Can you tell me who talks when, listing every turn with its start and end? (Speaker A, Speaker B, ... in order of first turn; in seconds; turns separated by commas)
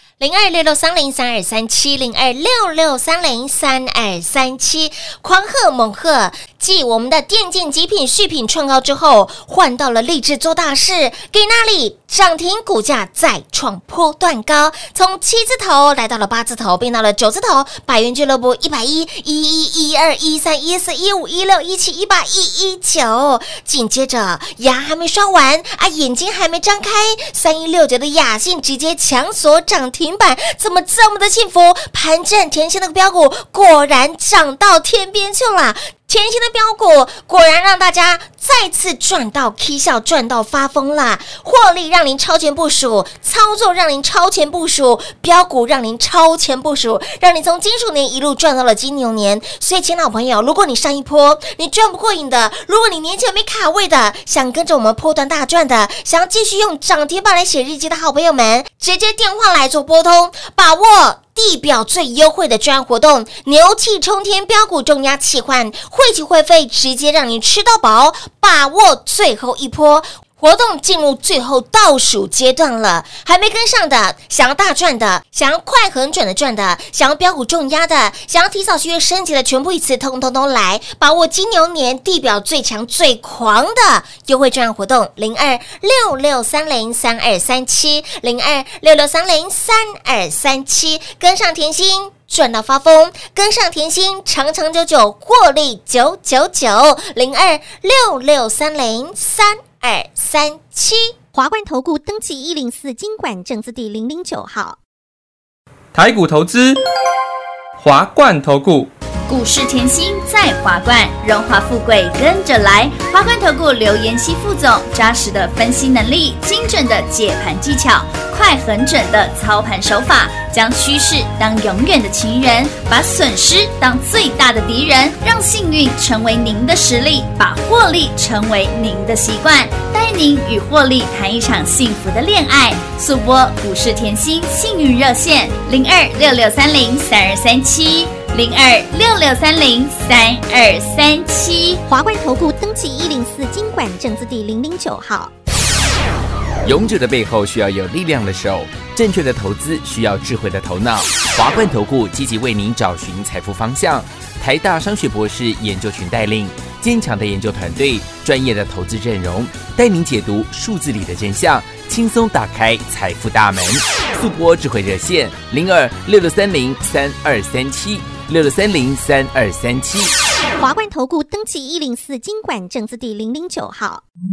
Speaker A: 0.2-101.1, Speaker B: 101.3-104.8, Speaker C: 105.9-106.8, Speaker C: 107.8-108.9, Speaker D: 109.3-141.8, Speaker B: 141.9-145.3, Speaker E: 146.6-170.1, Speaker B: 170.6-174.0